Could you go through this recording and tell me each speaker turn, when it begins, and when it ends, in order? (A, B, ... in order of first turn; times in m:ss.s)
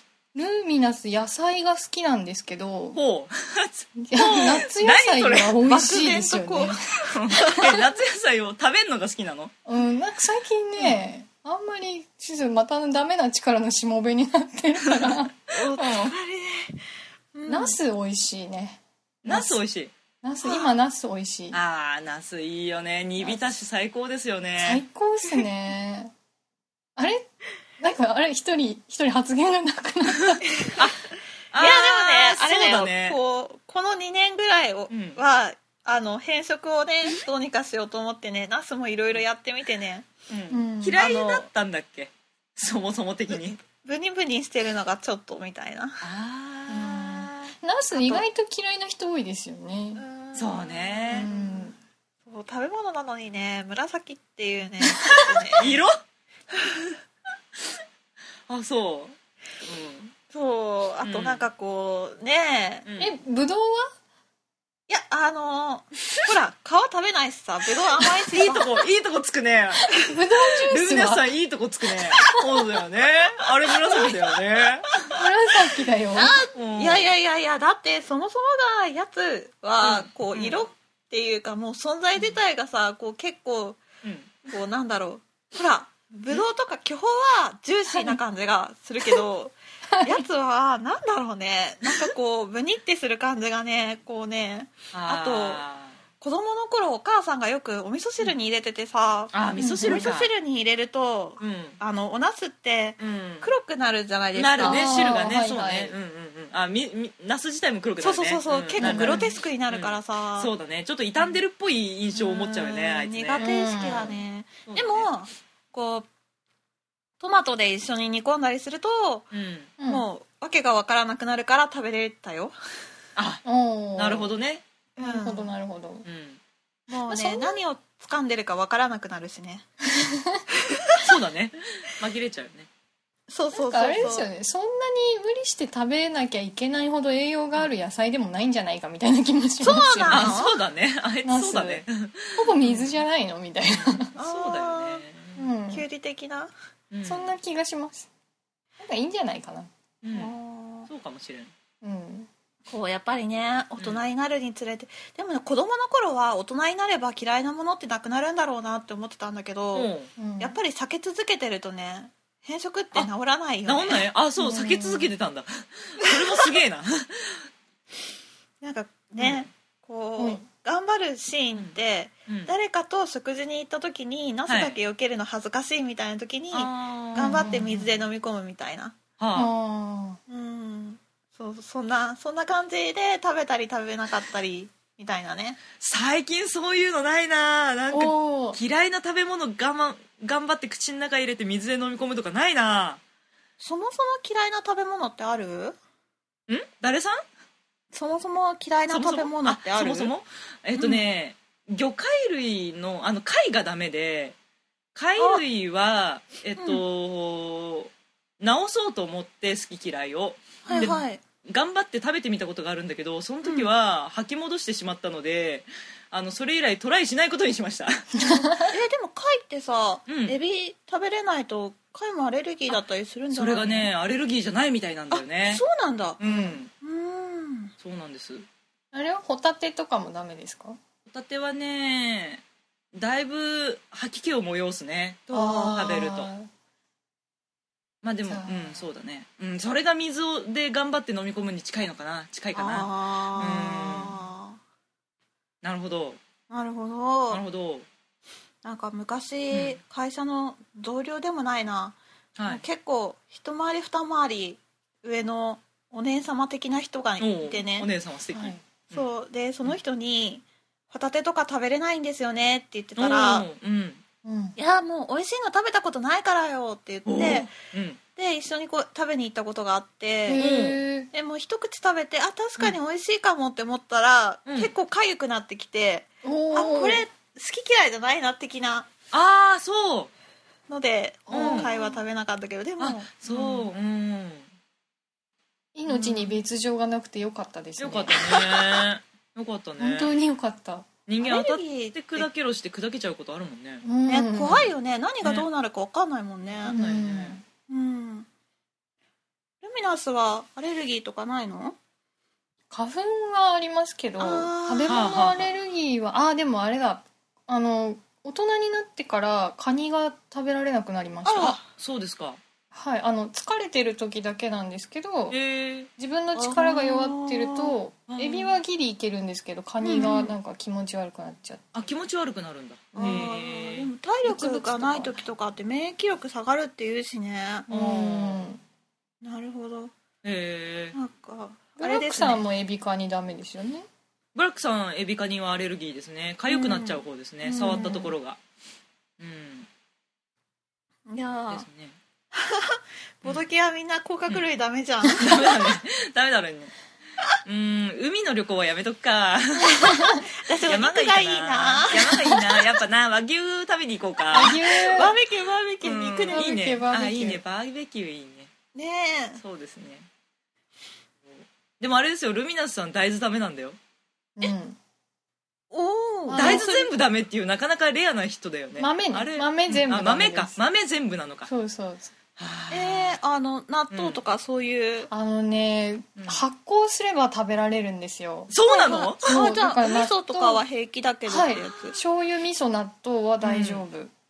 0:00.3-0:03.0 A
0:02.9-0:05.6 B
0:04.0-0:07.0 A
0:05.7-0:07.9 C
0:07.1-0:09.5 B
0:09.6-0:15.9 A
0:14.8-0:16.1 B
0:15.5-0:16.8 C
0:17.3-0:17.8 C
0:17.5-0:19.6 A
0:19.2-0:19.9 B
0:20.2-0:21.6 A
0:20.4-0:20.7 C
0:21.5-0:24.8 B
0:23.2-0:23.5 A
0:24.6-0:26.1 A
0:27.0-0:30.7 A
0:30.6-0:30.8 C
0:31.5-0:33.2 B
0:31.6-0:40.1 C
0:34.9-0:35.2 B
0:40.3-0:43.6 B
0:40.5-0:41.0 A
0:41.0-0:41.4 C
0:43.3-0:46.0 C
0:46.0-0:47.5 B
0:46.7-0:50.0 A
0:47.9-0:48.2 C
0:49.9-0:51.6 C
0:50.3-0:51.3 B
0:51.1-0:51.7 A
0:52.2-0:55.7 C
0:55.0-0:55.9 B
0:56.5-0:57.0 C
0:58.5-1:00.1 B
1:00.3-1:02.8 C
1:01.0-1:01.4 B
1:02.8-1:03.1 B
1:03.0-1:03.9 A
1:04.9-1:08.8 C
1:08.3-1:15.1 B
1:09.8-1:11.3 A
1:15.1-1:16.4 A
1:16.1-1:23.8 C
1:16.5-1:17.1 B
1:19.8-1:20.6 B
1:24.0-1:24.3 B
1:24.5-1:35.6 C
1:29.9-1:30.2 A
1:34.9-1:36.0 B
1:36.2-1:45.0 C
1:39.3-1:40.3 B
1:39.6-1:40.1 A
1:41.4-1:41.8 B
1:43.0-1:43.5 B
1:44.3-1:54.0 B
1:44.6-1:45.9 A
1:48.0-1:50.5 C
1:48.8-1:49.3 A
1:52.1-1:56.1 C
1:53.4-1:54.1 A
1:54.7-1:55.1 B
1:57.2-1:59.3 C
1:59.3-1:59.7 B
1:59.8-2:00.0 A
1:59.8-2:02.5 C
2:03.2-2:03.4 B
2:03.4-2:04.3 A
2:04.0-2:04.6 B
2:05.0-2:05.5 C
2:05.0-2:06.0 A
2:06.0-2:06.4 B
2:06.9-2:09.6 C
2:07.1-2:07.6 A
2:09.9-2:10.4 A
2:10.7-2:11.1 C
2:11.0-2:12.7 B
2:13.3-2:14.3 C
2:13.5-2:20.4 A
2:19.6-2:20.5 C
2:20.1-2:23.0 B
2:21.2-2:21.8 A
2:22.3-2:24.1 A
2:23.6-2:25.4 B
2:24.2-2:25.0 C
2:25.4-2:25.8 A
2:25.7-2:26.5 C
2:26.9-2:27.3 B
2:27.0-2:28.1 A
2:28.8-2:29.7 A
2:30.0-2:30.3 B
2:30.1-2:30.9 C
2:30.9-2:31.5 B
2:31.8-2:32.3 A
2:32.7-2:44.0 C
2:39.7-2:40.1 B
2:40.2-2:40.6 A
2:43.6-2:47.5 B
2:44.4-2:45.1 A
2:48.6-2:59.0 C
2:49.2-2:49.5 B
2:50.2-2:50.4 A
2:52.3-2:52.5 B
2:54.5-2:54.8 B
2:56.5-2:57.9 B
2:57.2-2:57.7 A
2:59.2-2:59.5 B
2:59.3-3:00.2 A
3:00.3-3:05.6 C
3:05.8-3:13.0 B
3:07.9-3:08.6 A
3:13.6-3:15.8 C
3:16.5-3:17.2 B
3:17.9-3:20.1 C
3:18.9-3:24.4 B
3:20.8-3:21.0 C
3:24.9-3:38.4 B
3:25.2-3:25.4 C
3:26.6-3:26.8 C
3:30.6-3:31.2 C
3:33.4-3:33.7 C
3:38.1-3:38.7 A
3:38.6-3:43.9 C
3:40.1-3:40.4 B
3:43.3-3:45.6 B
3:45.1-3:46.2 C
3:46.2-3:46.7 B
3:46.2-3:46.6 A
3:46.8-3:47.7 C
3:47.8-3:48.4 B
3:48.9-3:50.8 A
3:51.0-3:52.4 B
3:52.9-3:56.3 B
3:55.3-3:56.0 C
3:55.3-3:56.5 A
3:58.0-4:04.2 B
3:58.2-3:58.8 A
4:02.5-4:04.6 C
4:05.6-4:06.2 B
4:06.5-4:07.4 C
4:07.3-4:07.9 B
4:08.6-4:17.9 C
4:09.5-4:09.8 B
4:12.4-4:12.6 B
4:17.2-4:19.1 B
4:18.3-4:18.6 A
4:18.9-4:23.4 C
4:23.0-4:24.0 B
4:24.2-4:24.6 A
4:24.6-4:27.5 C
4:27.0-4:28.0 B
4:28.2-4:30.4 C
4:30.3-4:31.1 A
4:30.4-4:30.8 B
4:31.1-4:38.9 C
4:34.5-4:34.7 B
4:36.2-4:37.0 A
4:39.1-4:40.1 B
4:40.7-4:43.5 C
4:41.3-4:42.0 A
4:41.3-4:41.8 B
4:42.8-4:44.5 B
4:45.7-4:48.8 A
4:45.9-4:46.3 C
4:47.8-4:50.1 B
4:49.8-4:50.9 A
4:51.1-4:53.8 B
4:51.2-4:52.3 C
4:53.8-4:54.7 A
4:54.1-4:56.8 C
4:56.5-4:57.4 B
4:56.6-4:57.4 A
4:57.7-4:58.3 C
4:59.6-5:01.8 C
5:02.7-5:11.6 A
5:04.2-5:05.0 C
5:04.9-5:05.5 B
5:11.2-5:11.6 C
5:11.6-5:12.4 B
5:12.7-5:15.4 A
5:15.3-5:15.9 B
5:16.0-5:21.8 A
5:16.3-5:17.7 C
5:18.1-5:18.6 B
5:19.8-5:20.3 C
5:21.7-5:23.9 B
5:22.9-5:23.3 A
5:22.9-5:27.7 C
5:24.2-5:25.2 A
5:27.7-5:28.5 B
5:27.7-5:28.6 A
5:29.2-5:29.9 C
5:30.2-5:31.0 B
5:30.9-5:32.4 C
5:31.8-5:33.9 A
5:34.3-5:38.4 B
5:36.5-5:38.1 C
5:37.5-5:38.0 A
5:39.2-5:39.7 B
5:41.1-5:41.6 C
5:41.5-5:42.0 B
5:42.3-5:45.7 C
5:45.1-5:46.7 B
5:47.4-5:55.0 B
5:49.9-5:50.2 A
5:50.3-5:52.7 C
5:54.3-5:55.1 A
5:54.4-5:56.5 C
5:55.8-5:58.5 B
5:56.3-5:57.4 A
5:58.7-5:59.4 C
5:59.4-6:00.1 B
6:01.2-6:03.8 B
6:04.4-6:04.8 A
6:05.7-6:06.9 C
6:06.3-6:06.7 A
6:06.3-6:11.5 B
6:08.8-6:10.6 A
6:11.4-6:12.1 A
6:12.4-6:13.2 B
6:12.7-6:15.1 C
6:13.9-6:14.2 B
6:15.1-6:18.5 A
6:16.2-6:16.4 B
6:18.5-6:19.4 B
6:18.6-6:22.0 C
6:19.2-6:20.6 A
6:21.3-6:24.1 A
6:23.4-6:23.8 B